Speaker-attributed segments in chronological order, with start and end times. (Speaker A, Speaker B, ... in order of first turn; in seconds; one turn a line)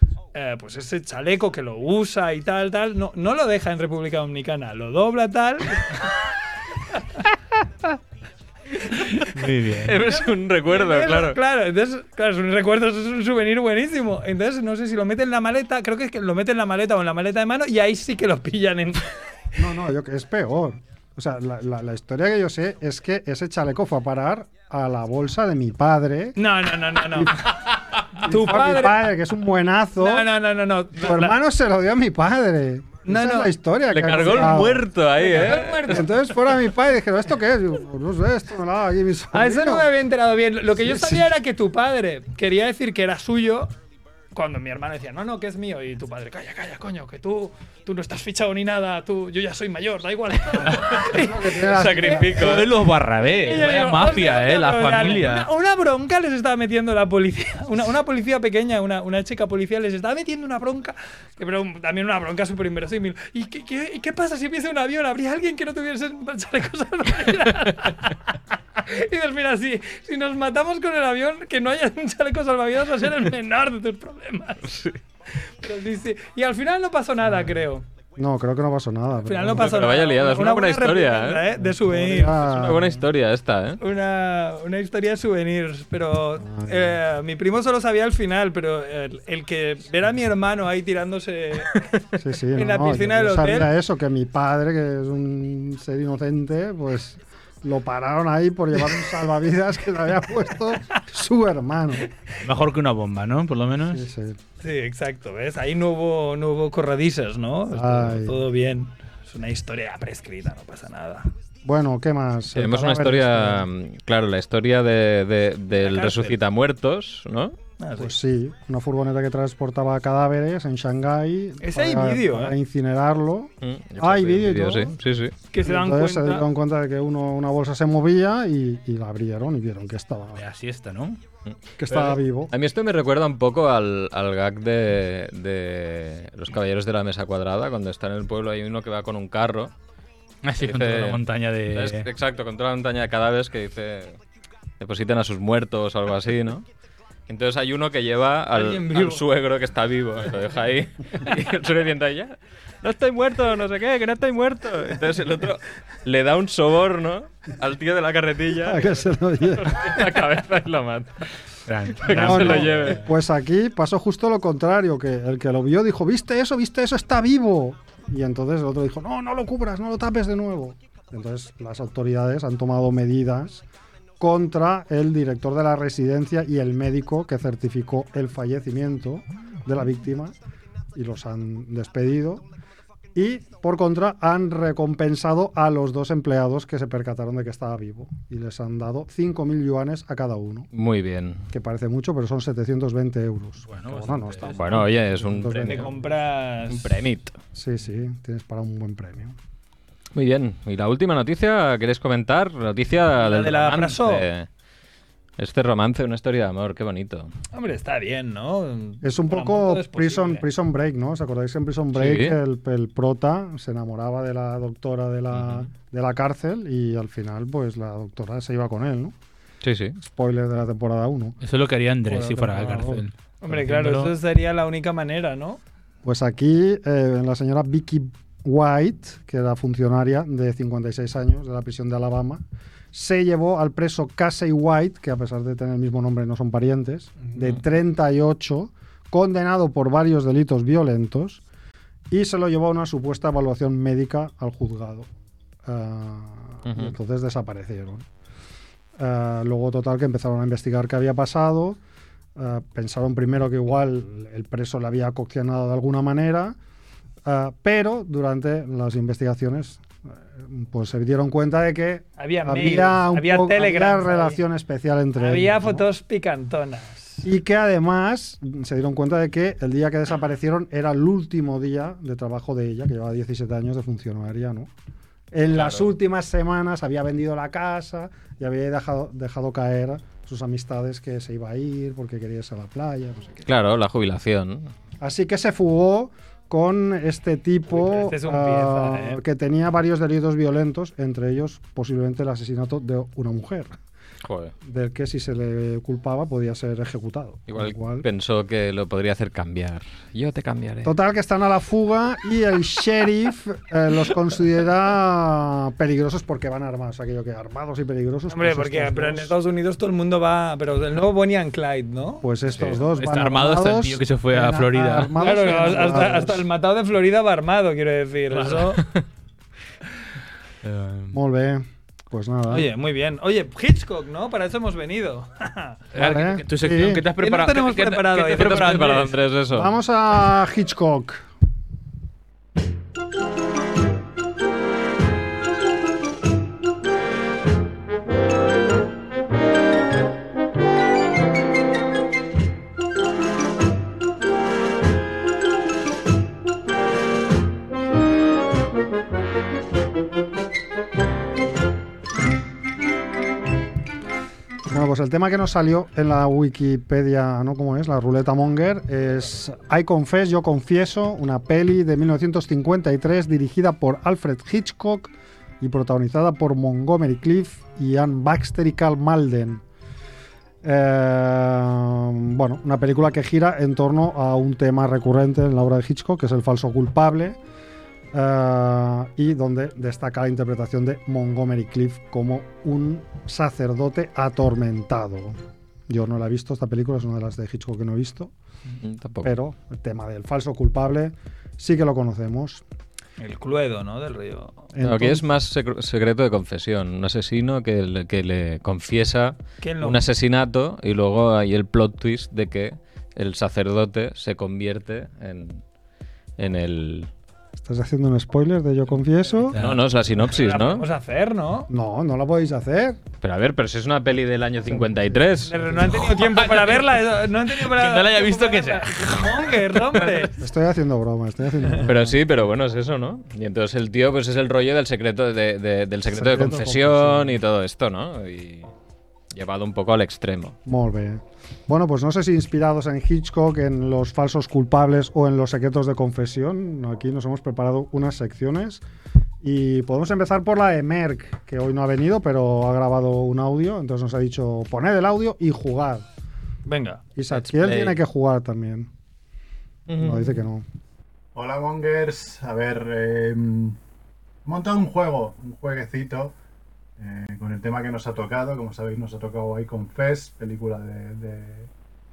Speaker A: 0.3-6.1
Speaker A: 6.9-7.2
Speaker A: 8.8-9.3
Speaker B: 9.3-10.0
Speaker C: 9.8-11.4
Speaker A: 10.0-19.2
Speaker D: 19.6-26.4
Speaker A: 26.4-27.5
Speaker D: 27.0-27.5
Speaker A: 28.1-29.0
Speaker D: 28.2-30.3
Speaker A: 30.0-31.4
Speaker D: 30.9-34.9
Speaker A: 33.0-33.5
Speaker C: 33.9-36.0
Speaker A: 34.2-36.3
Speaker D: 35.8-39.9
Speaker A: 39.3-43.7
Speaker D: 40.8-41.2
Speaker A: 44.3-52.5
Speaker D: 50.9-52.7
Speaker C: 51.7-52.6
Speaker B: 52.2-55.5
Speaker A: 53.2-74.8
Speaker A: 75.5-77.8
Speaker D: 78.2-79.8
Speaker A: 79.2-82.4
Speaker C: 79.5-81.5
Speaker D: 81.5-83.0
Speaker C: 82.2-83.8
Speaker A: 83.8-91.9
Speaker D: 86.4-87.0
Speaker D: 92.2-102.1
Speaker A: 92.5-93.7
Speaker B: 102.4-104.0
Speaker D: 103.8-104.4
Speaker A: 104.6-111.3
Speaker D: 107.7-108.4
Speaker D: 111.6-113.7
Speaker C: 112.5-117.5
Speaker A: 115.8-116.4
Speaker A: 117.8-118.2
Speaker D: 118.0-125.0
Speaker A: 121.6-122.5
Speaker C: 123.6-125.3
Speaker A: 125.5-126.5
Speaker D: 125.6-130.4
Speaker B: 130.3-131.2
Speaker C: 131.4-139.7
Speaker D: 131.8-132.5
Speaker B: 140.4-142.1
Speaker C: 140.6-141.2
Speaker C: 141.7-144.2
Speaker C: 144.8-146.6
Speaker C: 147.3-159.1
Speaker A: 148.5-149.2
Speaker D: 158.6-160.0
Speaker C: 159.6-161.2
Speaker B: 161.7-163.0
Speaker C: 162.0-163.1
Speaker D: 162.1-173.6
Speaker D: 174.2-180.3
Speaker D: 180.9-182.4
Speaker D: 183.1-190.7
Speaker C: 190.7-191.4
Speaker D: 191.5-195.9
Speaker B: 193.7-194.9
Speaker C: 194.5-195.9
Speaker A: 195.6-197.0
Speaker C: 196.7-197.4
Speaker D: 197.5-199.3
Speaker C: 200.1-204.5
Speaker A: 203.2-204.3
Speaker C: 205.4-207.3
Speaker A: 207.5-210.4
Speaker D: 209.0-219.1
Speaker C: 211.9-212.4
Speaker C: 215.3-215.7
Speaker C: 219.6-220.0
Speaker D: 220.0-221.4
Speaker B: 221.4-224.1
Speaker D: 222.0-223.0
Speaker A: 223.4-225.6
Speaker D: 226.0-232.4
Speaker D: 232.9-241.4
Speaker D: 242.1-245.1
Speaker D: 245.6-248.1
Speaker C: 246.7-246.9
Speaker D: 249.0-251.8
Speaker D: 252.3-256.6
Speaker D: 257.2-265.9
Speaker A: 262.2-264.4
Speaker A: 265.2-267.2
Speaker D: 267.2-274.7
Speaker D: 275.3-283.4
Speaker C: 275.5-275.9
Speaker C: 283.4-284.7
Speaker D: 285.0-293.8
Speaker A: 287.7-289.2
Speaker C: 294.2-294.5
Speaker D: 294.6-298.1
Speaker C: 297.5-300.9
Speaker D: 300.8-309.3
Speaker A: 308.3-312.2
Speaker D: 312.2-316.4
Speaker B: 312.6-315.1
Speaker A: 315.2-318.8
Speaker B: 318.3-318.6
Speaker C: 318.8-319.0
Speaker B: 320.6-321.1
Speaker D: 321.1-322.7
Speaker A: 322.5-325.8
Speaker B: 325.9-329.1
Speaker D: 325.9-327.1
Speaker A: 327.2-329.1
Speaker C: 328.3-329.7
Speaker D: 329.5-331.2
Speaker D: 354.7-369.6
Speaker D: 370.6-377.4
Speaker D: 378.1-388.3
Speaker C: 388.8-389.3
Speaker D: 389.2-392.6
Speaker A: 393.2-394.6
Speaker D: 394.7-395.2
Speaker C: 394.8-405.6
Speaker A: 399.6-400.0
Speaker C: 406.4-407.1
Speaker D: 407.6-409.6
Speaker B: 409.5-409.8
Speaker C: 409.5-410.9
Speaker A: 410.3-411.7
Speaker D: 411.7-413.0
Speaker C: 413.2-415.7
Speaker D: 414.6-416.0
Speaker A: 415.4-420.3
Speaker B: 415.9-420.2
Speaker D: 420.4-422.2
Speaker C: 421.8-428.7
Speaker D: 426.1-427.4
Speaker C: 429.3-430.6
Speaker D: 430.6-438.8
Speaker D: 439.4-446.1
Speaker A: 446.6-447.0
Speaker D: 447.1-448.9
Speaker C: 447.3-447.9
Speaker C: 449.9-450.4
Speaker D: 449.9-450.6
Speaker E: 451.3-453.8
Speaker E: 454.4-456.4
Speaker E: 457.0-461.7